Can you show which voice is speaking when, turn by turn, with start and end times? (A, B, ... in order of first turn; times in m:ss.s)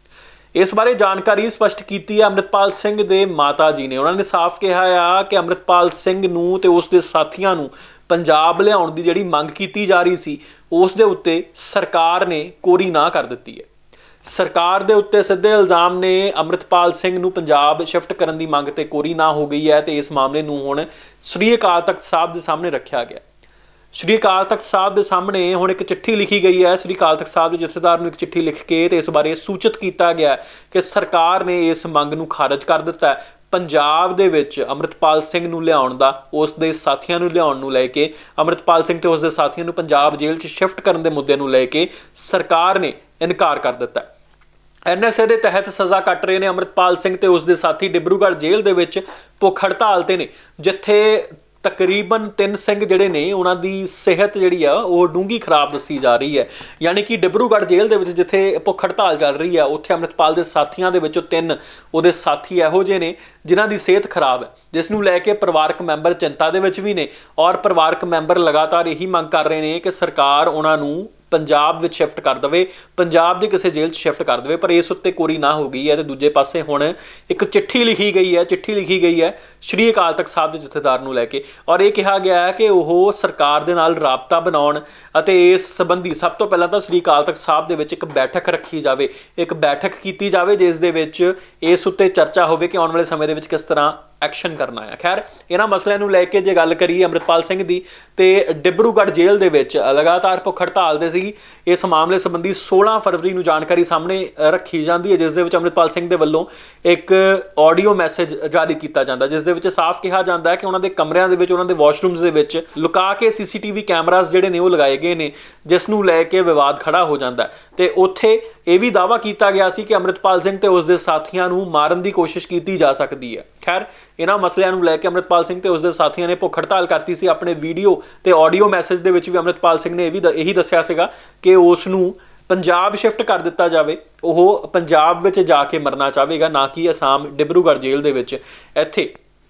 0:00.6-0:13.7 A
0:14.2-0:23.2 A
0:23.9-0:44.1 A
0:44.9-2:19.2 A